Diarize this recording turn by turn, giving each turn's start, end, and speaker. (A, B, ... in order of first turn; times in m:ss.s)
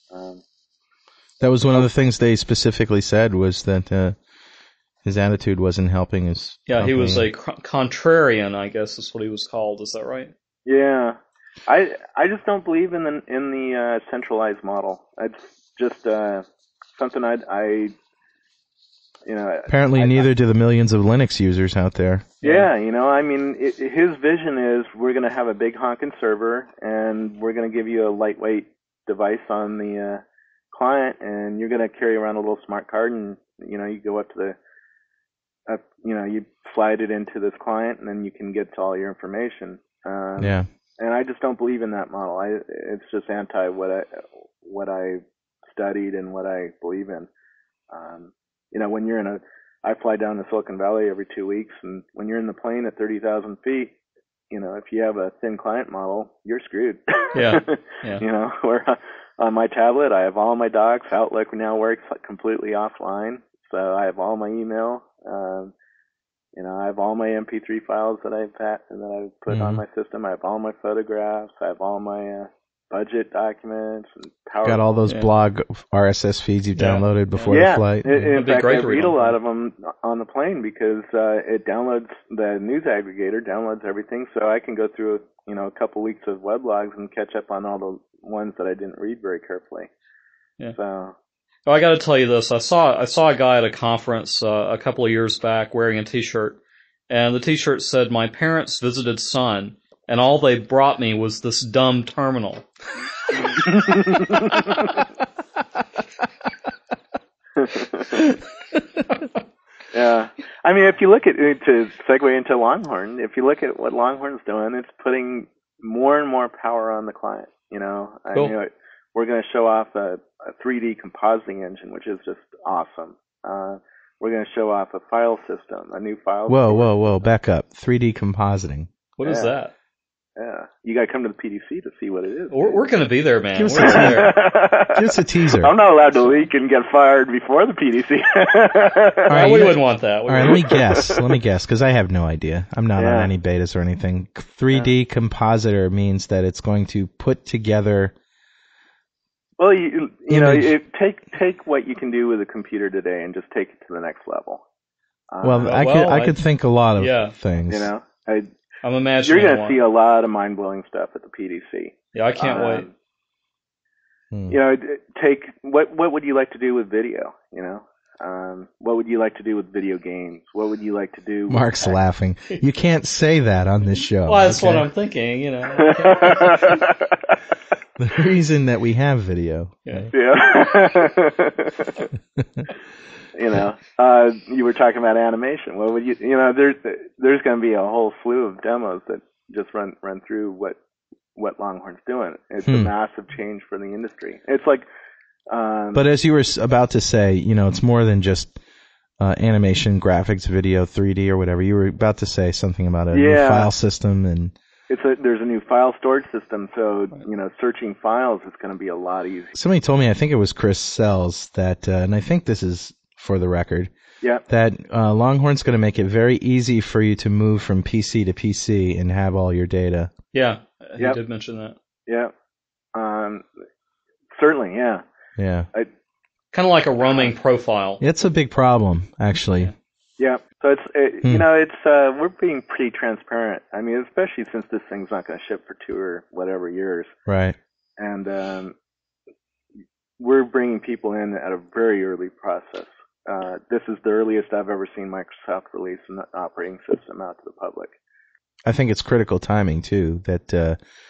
0:00.1-0:00.4 A
0:01.4-0:04.2 B
0:05.0-0:07.2 B
0:06.7-0:10.3 C
0:10.6-0:17.9 A
0:19.2-0:20.3 A
0:19.7-0:22.3 B
0:22.4-0:22.7 C
0:22.4-0:34.6 A
0:35.7-0:47.3 A
0:40.4-0:40.7 B
0:47.9-0:53.9 A
0:54.5-1:05.7 A
0:57.3-0:58.2 C
1:06.5-1:15.0 A
1:09.5-1:09.8 B
1:14.6-1:18.4 B
1:16.8-1:17.5 C
1:17.5-1:29.9 A
1:18.3-1:19.4 C
1:30.7-1:31.1 A
1:31.6-1:36.6 C
1:37.1-1:42.6 C
1:43.6-1:44.9 A
1:47.6-1:48.3 A
1:49.9-2:07.0 A
2:06.5-2:08.9 B
2:09.2-2:09.7 C
2:09.2-2:09.5 A
2:10.4-2:12.8 A
2:12.5-2:14.3 C
2:13.5-2:15.7 B
2:13.8-2:19.4 A
2:19.3-2:28.1 B
2:19.3-2:20.7 C
2:20.4-2:21.3 A
2:22.9-2:23.3 A
2:29.6-2:34.6 A
2:30.3-2:30.8 B
2:35.3-2:35.8 A
2:35.4-2:37.9 B
2:35.6-2:36.4 C
2:37.0-2:37.3 C
2:37.7-2:38.5 A
2:38.8-2:39.8 C
2:39.2-2:42.9 A
2:42.1-2:42.8 C
2:44.3-2:44.6 B
2:44.5-2:52.0 A
2:51.5-2:54.9 B
2:54.2-2:56.8 C
2:55.8-2:57.3 A
2:58.0-3:00.1 B
2:59.8-3:00.1 C
3:00.1-3:02.1 A
3:03.3-3:10.8 A
3:11.4-3:14.8 A
3:12.6-3:12.9 B
3:15.5-3:16.0 A
3:15.9-3:18.6 B
3:19.2-3:24.5 B
3:23.1-3:23.7 A
3:24.9-3:29.5 A
3:29.5-3:33.9 B
3:34.5-3:40.1 B
3:40.3-3:41.8 C
3:42.1-3:42.3 A
3:42.9-3:43.4 A
3:44.3-3:45.0 A
3:45.4-3:45.7 B
3:46.5-3:48.0 C
3:48.0-3:49.7 B
3:50.2-3:57.1 A
3:57.3-3:57.6 B
3:58.0-3:58.7 A
4:00.2-4:07.9 A
4:08.6-4:10.8 B